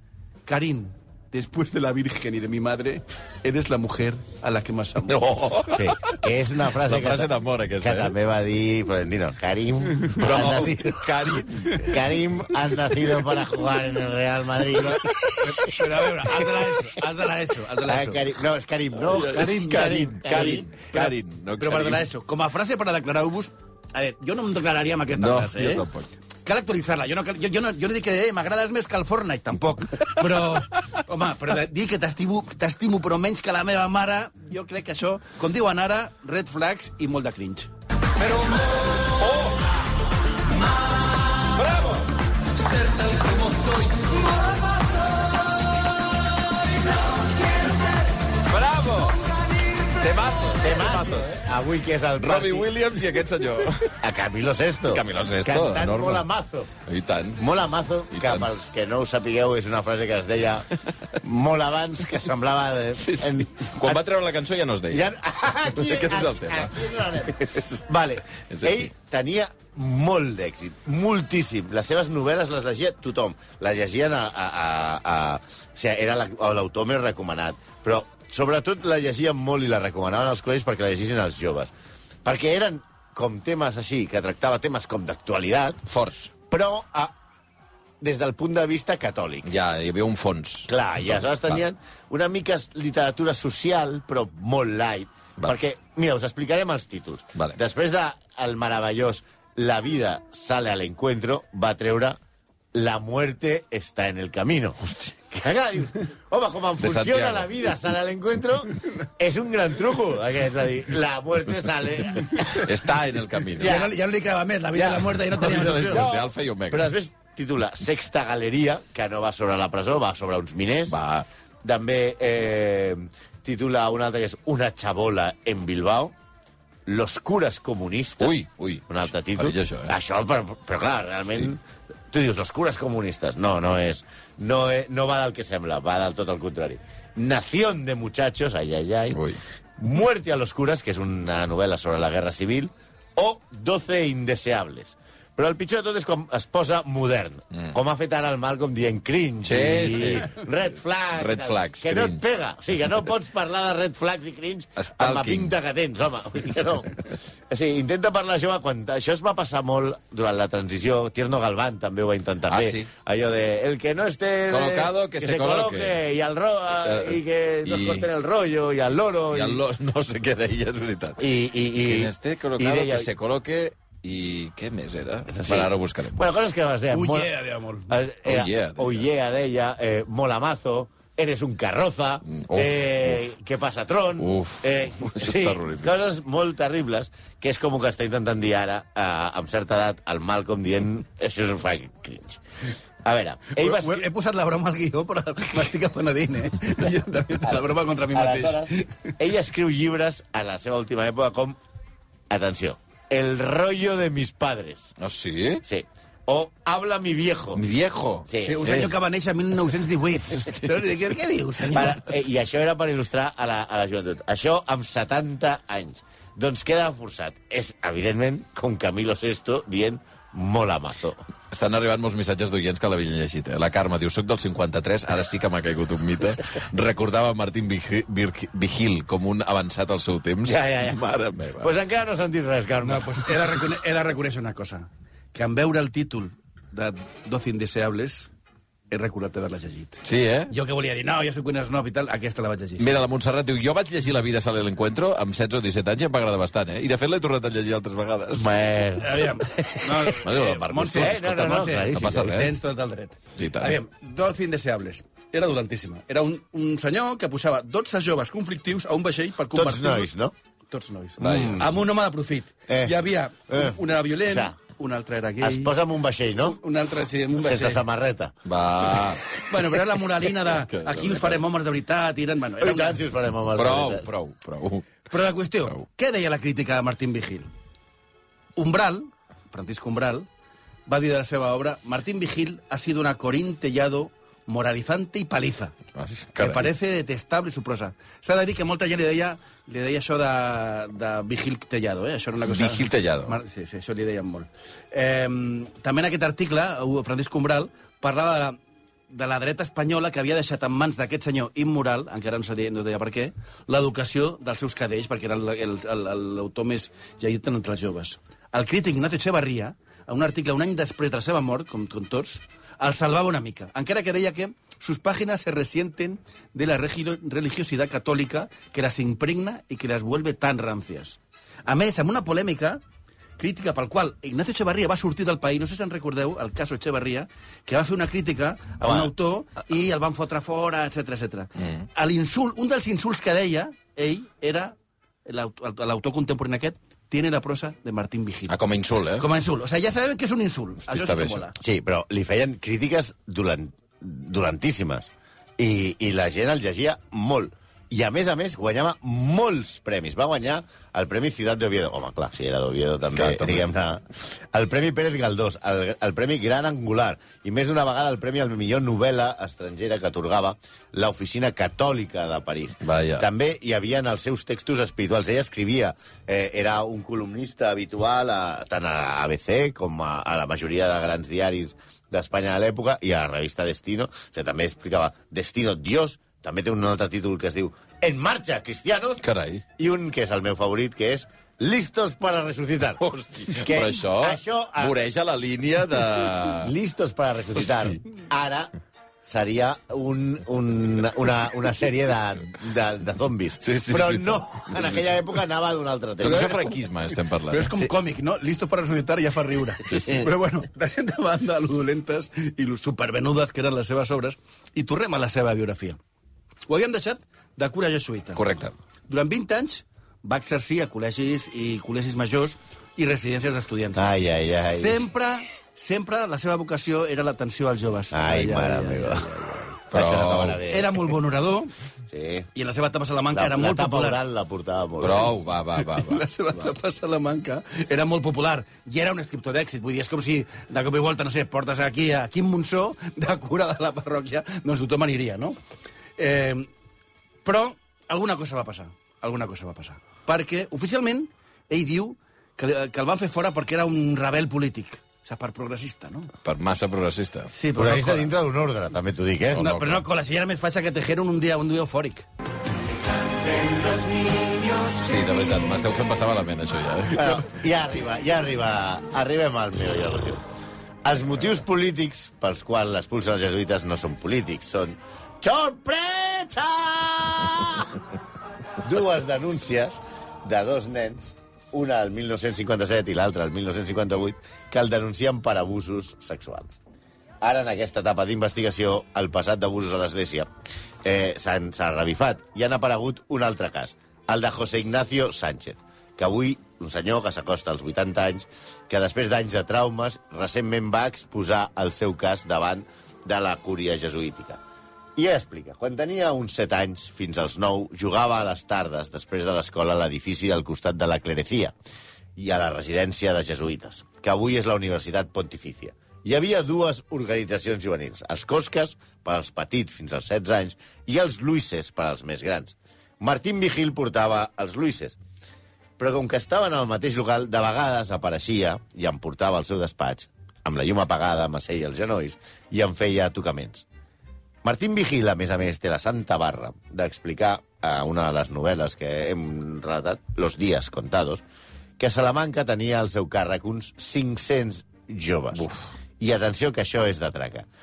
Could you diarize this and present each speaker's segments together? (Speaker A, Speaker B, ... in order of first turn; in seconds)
Speaker A: 0.5-5.2, 15.4-18.2, 19.2-20.6, 21.6-25.9, 26.4-37.7, 113.6-116.1, 176.9-178.0, 193.5-199.1, 208.4-212.0, 232.8-238.3, 238.9-243.0, 249.0-260.1, 260.7-265.8, 266.4-267.8, 269.4-273.0, 275.1-277.5, 278.6-280.3, 280.9-285.8, 286.4-298.6, 299.1-322.8, 323.4-338.5, 339.2-341.6, 397.5-406.0, 406.7-408.4, 409.1-414.1, 414.6-419.8, 420.7-421.7, 422.6-424.2, 425.9-435.6, 436.2-436.7, 437.4-446.3, 447.5-448.3, 449.6-452.3
Speaker B: 5.1-6.2, 6.8-8.1, 10.2-12.1, 19.1-22.1, 25.2-26.1, 38.2-39.6, 41.5-42.1, 48.4-51.3, 52.2-54.0, 54.9-56.2, 56.9-57.4, 58.1-58.5, 63.0-65.1, 65.8-67.8, 68.4-68.9, 85.9-86.3, 89.5-91.6, 106.8-107.7, 112.6-113.8, 115.3-116.9, 120.9-121.3, 128.2-129.9, 139.1-139.4, 149.5-150.3, 151.2-152.2, 154.8-155.5, 162.5-162.9, 164.5-166.0, 166.8-168.1, 169.3-171.2, 171.8-176.2, 178.2-179.1, 182.3-183.2, 184.2-185.9, 205.0-205.6, 207.6-208.9, 221.5-231.7, 240.0-240.5, 242.8-248.5, 250.2-251.4, 251.9-252.5, 253.4-253.8, 261.2-261.7, 268.5-269.4, 270.4-271.4, 273.5-274.9, 285.9-286.7, 292.4-293.4, 338.5-339.3, 340.9-341.5, 353.1-353.7, 362.8-363.2, 379.2-379.6, 383.0-386.7, 387.7-387.9, 393.6-395.0, 396.2-397.7, 408.4-408.7, 419.9-420.6, 425.0-426.2, 446.4-447.5, 449.5-450.0, 455.0-457.4, 535.5-535.8
Speaker C: 5.7-16.7, 17.8-21.1, 50.6-52.7, 54.0-56.7, 57.4-60.7, 61.2-64.0, 64.9-81.7, 82.2-85.8, 86.5-87.1, 88.0-89.5, 90.7-102.2, 102.7-112.7, 113.6-114.0, 114.7-121.0, 121.6-126.2, 126.9-128.4, 128.9-131.6, 132.1-139.2, 139.8-169.6, 171.2-173.1, 175.3-177.3, 177.9-192.4, 193.0-194.1, 198.1-201.6, 202.3-204.9, 205.6-207.7, 208.3-208.9, 211.7-221.2, 230.4-231.0, 231.6-233.3, 248.3-250.2, 250.9-252.4, 259.5-260.3, 261.2-261.7, 262.7-264.6, 265.4-266.6, 267.4-268.4, 272.6-274.1, 328.8-329.1, 341.6-379.2, 379.8-385.0, 386.6-388.7, 389.2-396.7, 413.9-415.0, 418.1-420.9, 422.1-422.5, 423.3-425.3, 447.8-449.8, 453.6-454.8, 457.1-460.4, 461.0-468.0, 468.8-476.8, 477.4-480.5, 481.0-494.6, 495.2-501.8, 502.4-515.2, 516.0-523.9, 524.6-531.4, 532.0-535.7, 536.2-537.7